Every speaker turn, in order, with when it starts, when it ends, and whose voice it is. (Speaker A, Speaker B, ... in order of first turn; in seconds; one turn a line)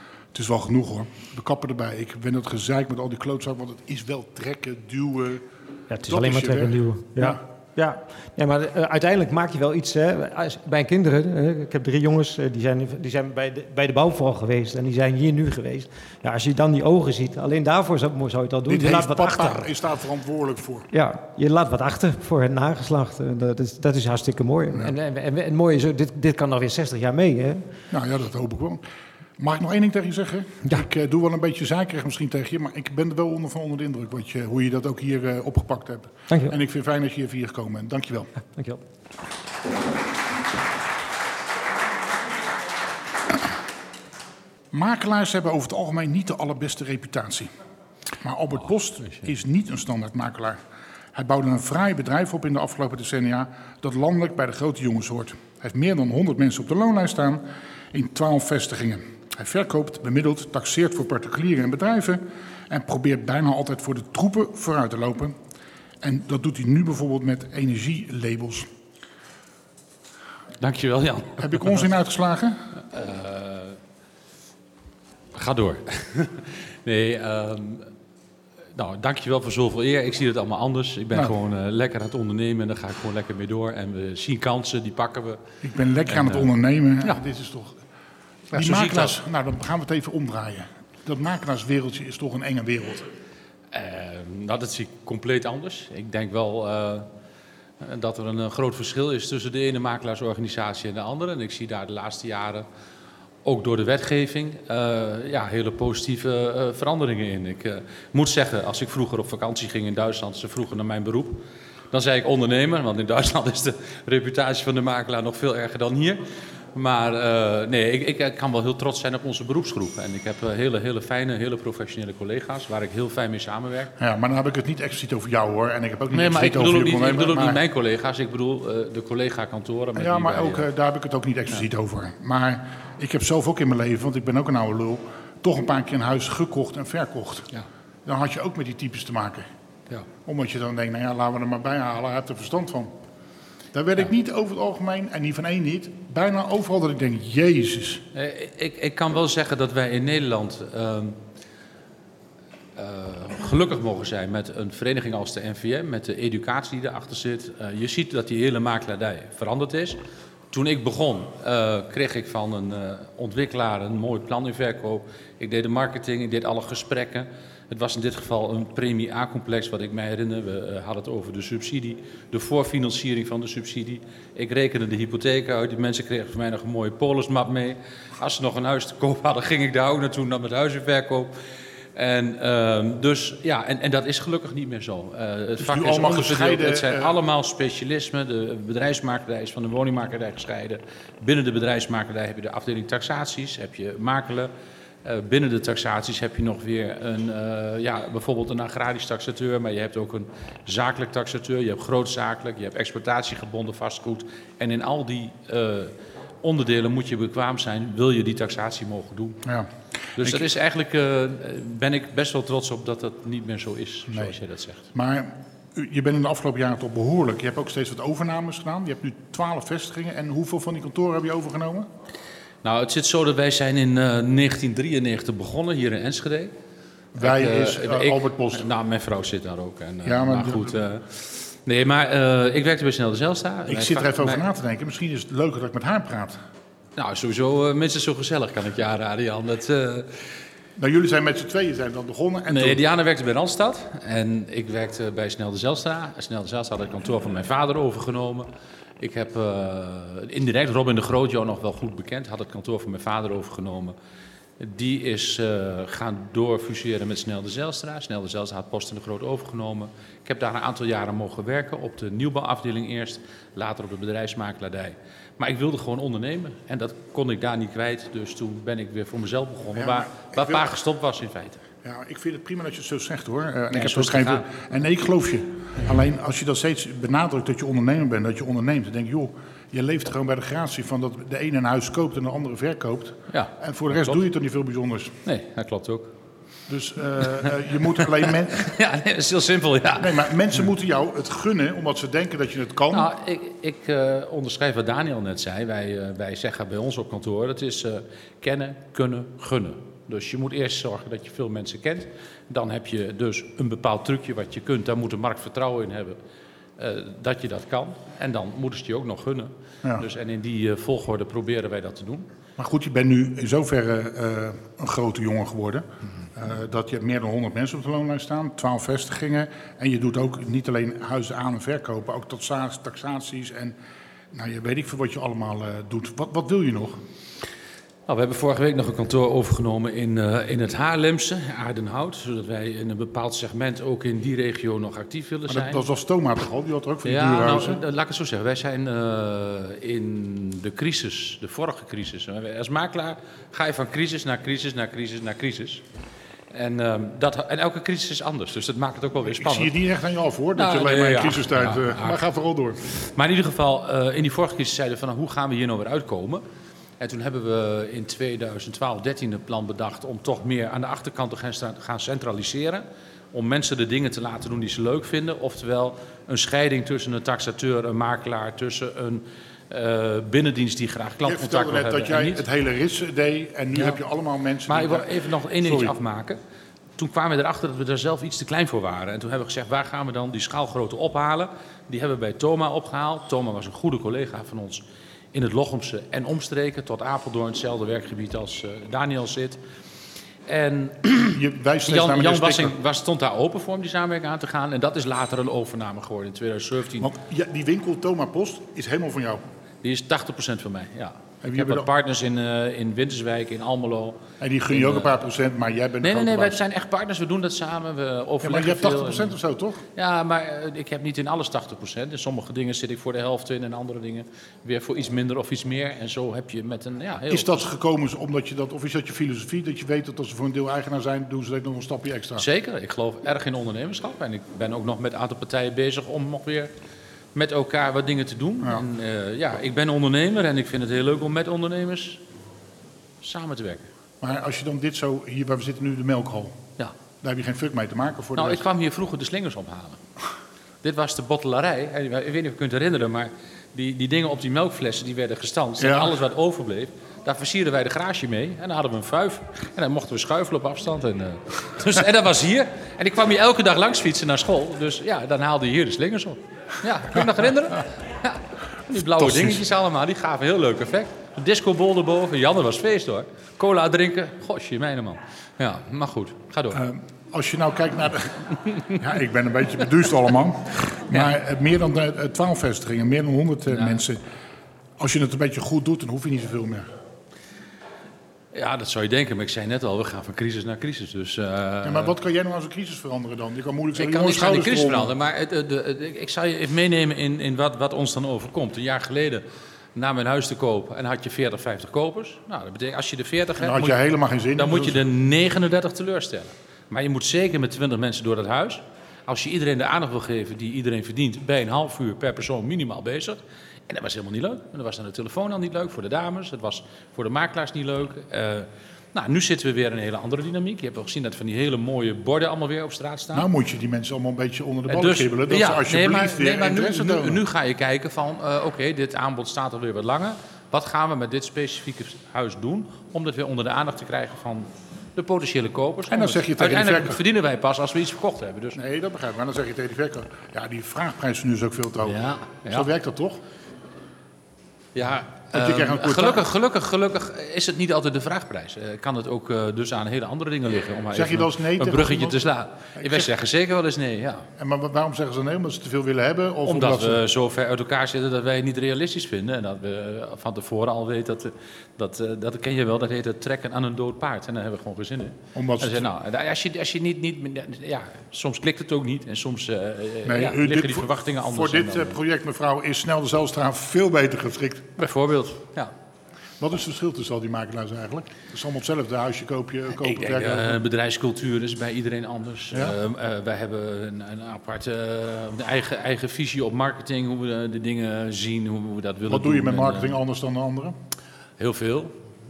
Speaker A: 0.3-5.4
Speaker B: 5.9-19.7
Speaker A: 6.1-7.4
Speaker A: 18.7-20.9
Speaker B: 20.9-27.6
Speaker A: 27.9-28.8
Speaker A: 29.4-38.3
Speaker B: 36.3-36.6
Speaker B: 38.5-38.8
Speaker A: 44.7-47.5
Speaker A: 48.2-50.6
Speaker A: 51.1-65.4
Speaker A: 66.0-68.7
Speaker C: 70.6-71.9
Speaker A: 71.4-72.8
Speaker C: 72.9-73.8
Speaker C: 75.3-77.9
Speaker C: 78.8-85.4
Speaker A: 85.6-87.8
Speaker C: 86.1-86.5
Speaker C: 88.5-89.2
Speaker A: 88.5-93.1
Speaker C: 93.7-97.1
Speaker C: 97.8-102.7
Speaker C: 103.5-116.2
Speaker C: 116.7-123.9
Speaker A: 124.0-127.6
Speaker C: 126.1-130.7
Speaker A: 130.0-137.5
Speaker A: 138.1-139.5
Speaker A: 140.2-142.9
Speaker A: 143.7-148.0
Speaker C: 148.1-151.2
Speaker C: 152.8-160.0
Speaker C: 160.5-181.3
Speaker C: 181.9-194.5
Speaker A: 185.6-187.2
Speaker C: 195.0-209.4
Speaker A: 209.4-210.4
Speaker C: 210.2-214.9
Speaker A: 214.1-214.3
Speaker A: 214.9-221.9
Speaker C: 222.6-226.5
Speaker A: 227.2-228.7
Speaker C: 227.2-234.4
Speaker A: 230.0-230.8
Speaker A: 233.7-236.4
Speaker C: 237.0-240.3
Speaker A: 240.8-242.8
Speaker C: 242.5-248.5
Speaker C: 249.0-253.9
Speaker C: 254.6-271.6
Speaker A: 269.8-270.7
Speaker A: 271.8-285.1
Speaker C: 273.7-274.4
Speaker C: 283.3-284.2
Speaker C: 285.3-286.1
Speaker A: 286.7-288.7
Speaker C: 288.0-290.3
Speaker A: 290.0-293.1
Speaker C: 292.9-306.2
Speaker C: 306.8-312.3
Speaker A: 312.6-323.8
Speaker A: 324.3-327.0
Speaker C: 328.1-335.8
Speaker A: 335.5-337.8
Speaker C: 337.0-345.8
Speaker C: 346.5-349.8
Speaker A: 349.3-352.8
Speaker C: 350.6-352.2
Speaker C: 352.8-356.4
Speaker C: 357.0-372.4
Speaker A: 371.2-375.9
Speaker C: 373.7-374.0
Speaker C: 374.7-376.4
Speaker C: 377.0-389.6
Speaker C: 390.5-397.1
Speaker A: 391.3-392.7
Speaker A: 397.0-399.4
Speaker C: 399.8-405.2
Speaker A: 401.4-401.9
Speaker A: 404.4-406.6
Speaker C: 406.0-409.4
Speaker A: 408.4-409.8
Speaker C: 409.9-417.6
Speaker A: 417.3-422.4
Speaker C: 422.4-426.7
Speaker C: 427.4-432.2
Speaker C: 433.2-433.9
Speaker A: 434.2-436.6
Speaker A: 437.2-438.7
Speaker C: 438.4-440.0
Speaker C: 440.8-466.8
Speaker A: 445.8-446.1
Speaker A: 459.0-459.6
Speaker A: 466.7-474.2
Speaker C: 473.7-474.0
Speaker A: 475.0-476.9
Speaker C: 478.5-482.1
Speaker A: 481.8-485.1
Speaker C: 483.9-494.0
Speaker A: 493.6-495.0
Speaker C: 494.6-513.5
Speaker A: 513.3-517.4
Speaker C: 514.9-528.8
Speaker A: 526.1-527.2
Speaker A: 528.8-532.2
Speaker C: 532.1-532.9
Speaker A: 532.7-533.4
Speaker C: 535.0-544.5
Speaker A: 535.5-536.4
Speaker A: 541.1-542.4
Speaker A: 543.0-543.3
Speaker A: 544.6-547.2
Speaker C: 546.7-562.2
Speaker A: 555.5-556.1
Speaker A: 560.2-564.9
Speaker C: 565.0-565.9
Speaker A: 566.6-570.8
Speaker C: 570.0-580.2
Speaker A: 572.7-573.0
Speaker A: 579.3-581.0
Speaker C: 581.6-582.1